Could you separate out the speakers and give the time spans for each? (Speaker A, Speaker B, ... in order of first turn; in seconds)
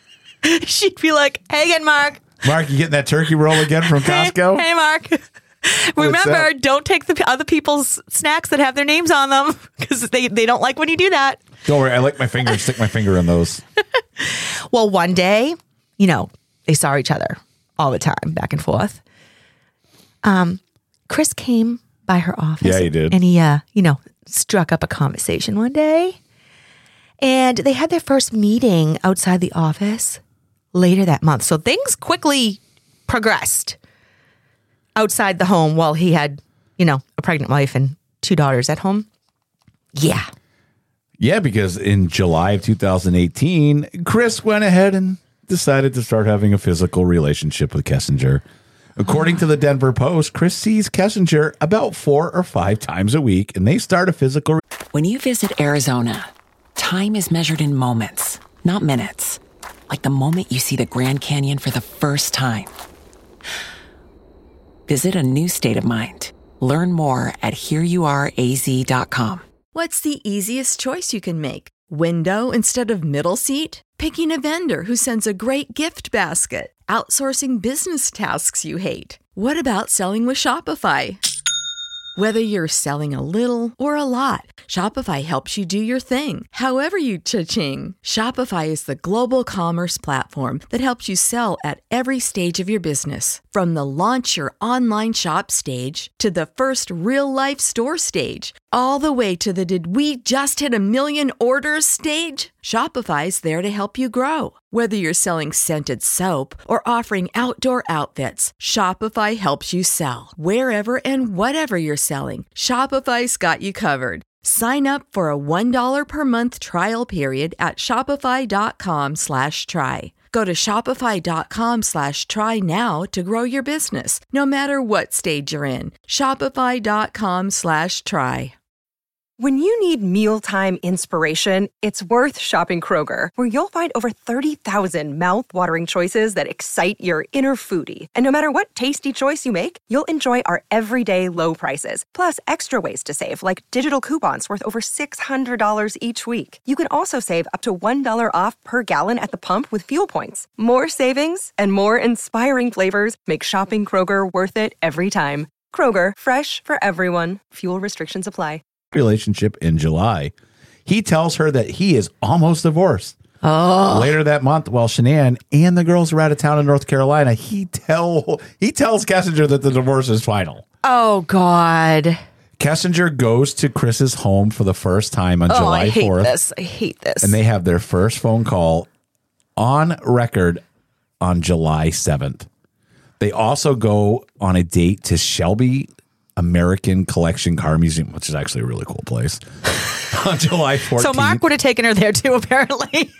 Speaker A: 0.4-2.4, 3.9-11.4, 14.2-19.0, 20.2-26.2, 27.2-30.2, 30.7-33.8, 35.0-39.0, 39.9-40.3, 163.4-164.2, 170.8-172.2, 175.5-177.3, 191.0-193.1
Speaker B: 2.4-4.7, 6.0-6.5, 11.7-13.6, 22.6-23.2, 41.2-48.4, 49.0-54.6, 158.9-160.3, 160.8-163.2, 163.8-170.6, 172.6-176.3, 177.2-178.9, 179.6-180.6, 181.2-182.5, 183.2-191.4
Speaker C: 54.9-62.7, 64.9-69.4
Speaker D: 69.7-81.2, 82.2-128.5
Speaker E: 129.4-158.6